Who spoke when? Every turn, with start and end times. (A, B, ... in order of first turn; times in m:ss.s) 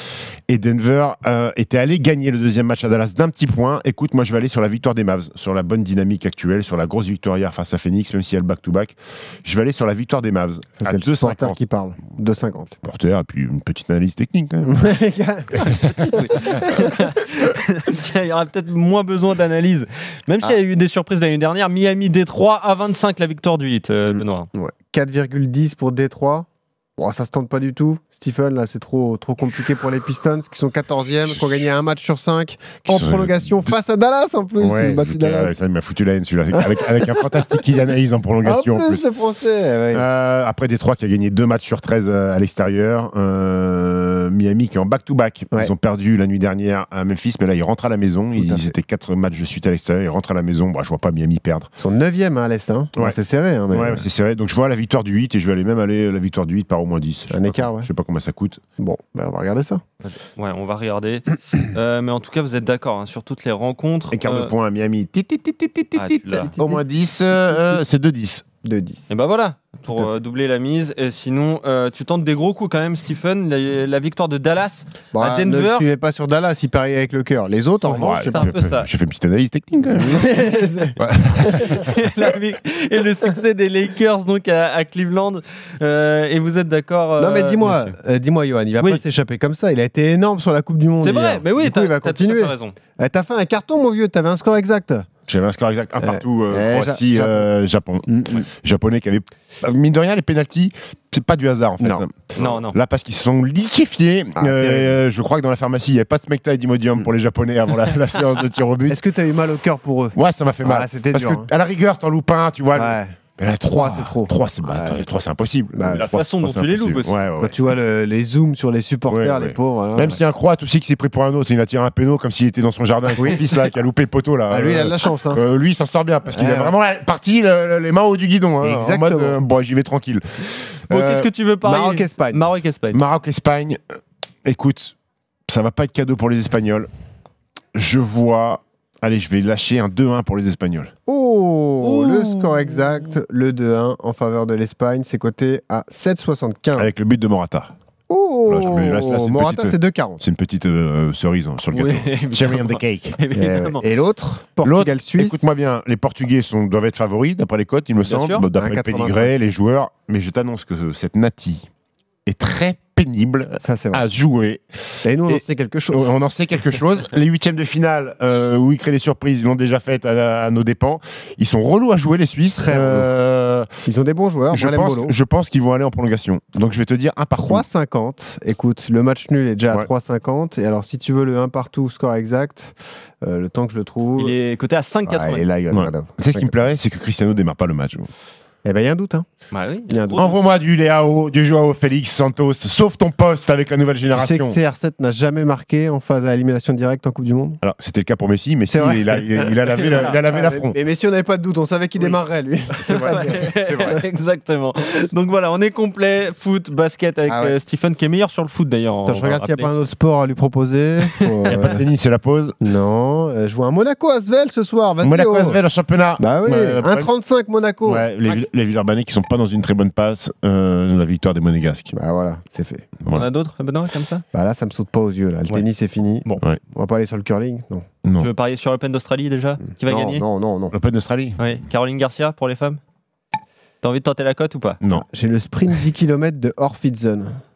0:00.5-0:11.6 A
0:10.8-0:12.8 B
0:12.8-0:14.8 A
0:14.7-0:16.7 B
0:15.6-0:24.5 C
0:24.1-0:26.4 B
0:27.0-0:35.6 B
0:32.8-0:33.7 A
0:34.6-0:39.0 A
0:36.5-0:37.5 B
0:38.4-0:40.0 B
0:39.9-0:51.7 A
0:48.4-0:48.7 B
0:51.8-0:54.0 B
0:53.7-0:58.6 A
0:57.3-0:57.9 B
0:58.8-0:59.8 B
1:00.0-1:04.5 C
1:04.1-1:08.4 A
1:06.0-1:06.5 C
1:06.6-1:06.8 B
1:07.4-1:07.8 B
1:08.6-1:09.1 B
1:09.1-1:15.8 C
1:15.1-1:18.5 B
1:17.8-1:18.9 C
1:17.9-1:22.0 A
1:19.9-1:21.8 B
1:21.6-1:27.9 C
1:27.2-1:35.1 B
1:31.0-1:32.8 C
1:35.3-1:49.1 A
1:36.0-1:37.5 B
1:38.1-1:38.5 B
1:41.8-1:42.0 B
1:42.4-1:42.8 C
1:44.4-1:45.0 B
1:48.9-1:51.5 B
1:50.1-1:57.7 A
1:52.7-1:53.2 B
1:53.7-1:55.1 B
1:55.8-1:56.0 B
1:55.9-1:57.1 C
1:57.4-2:00.2 B
1:59.1-2:11.3 A
2:03.2-2:03.7 B
2:04.5-2:05.4 B
2:06.3-2:06.7 B
2:08.6-2:09.4 B
2:10.9-2:13.0 C
2:11.6-2:12.4 B
2:12.9-2:13.8 A
2:14.4-2:14.9 A
2:15.5-2:16.9 A
2:17.7-2:20.9 A
2:21.1-2:26.9 B
2:21.9-2:22.4 C
2:26.8-2:27.7 A
2:28.1-2:30.2 B
2:28.4-2:33.2 A
2:31.7-2:33.8 C
2:33.3-2:35.5 B
2:34.6-2:41.7 A
2:38.0-2:38.5 C
2:38.5-2:39.3 B
2:42.2-2:44.6 A
2:43.6-2:44.0 B
2:45.0-2:46.1 B
2:45.3-2:53.9 A
2:52.6-2:53.1 B
2:53.8-2:55.1 B
2:54.5-2:57.6 A
2:57.5-3:04.4 B
3:04.2-3:05.4 C
3:05.1-3:06.5 B
3:05.7-3:08.1 A
3:08.6-3:09.2 B
3:09.5-3:10.3 C
3:09.9-3:10.4 B
3:10.2-3:14.6 A
3:14.1-3:17.6 B
3:17.6-3:20.8 A
3:18.7-3:24.0 B
3:19.8-3:20.2 C
3:22.7-3:24.0 A
3:22.8-3:29.7 C
3:27.3-3:27.6 B
3:29.0-3:31.8 B
3:31.5-3:32.6 A
3:32.6-3:35.6 B
3:35.0-3:37.1 A
3:36.2-3:38.4 B
3:37.8-3:41.9 A
3:41.9-3:42.9 B
3:43.0-3:43.3 A
3:43.1-3:44.2 C
3:44.3-3:47.8 B
3:48.0-3:48.3 A
3:48.2-3:50.2 C
3:49.8-3:50.7 B
3:50.7-3:51.5 A
3:51.4-3:52.8 C
3:53.8-3:54.8 C
3:54.8-3:55.0 A
3:54.9-3:57.4 B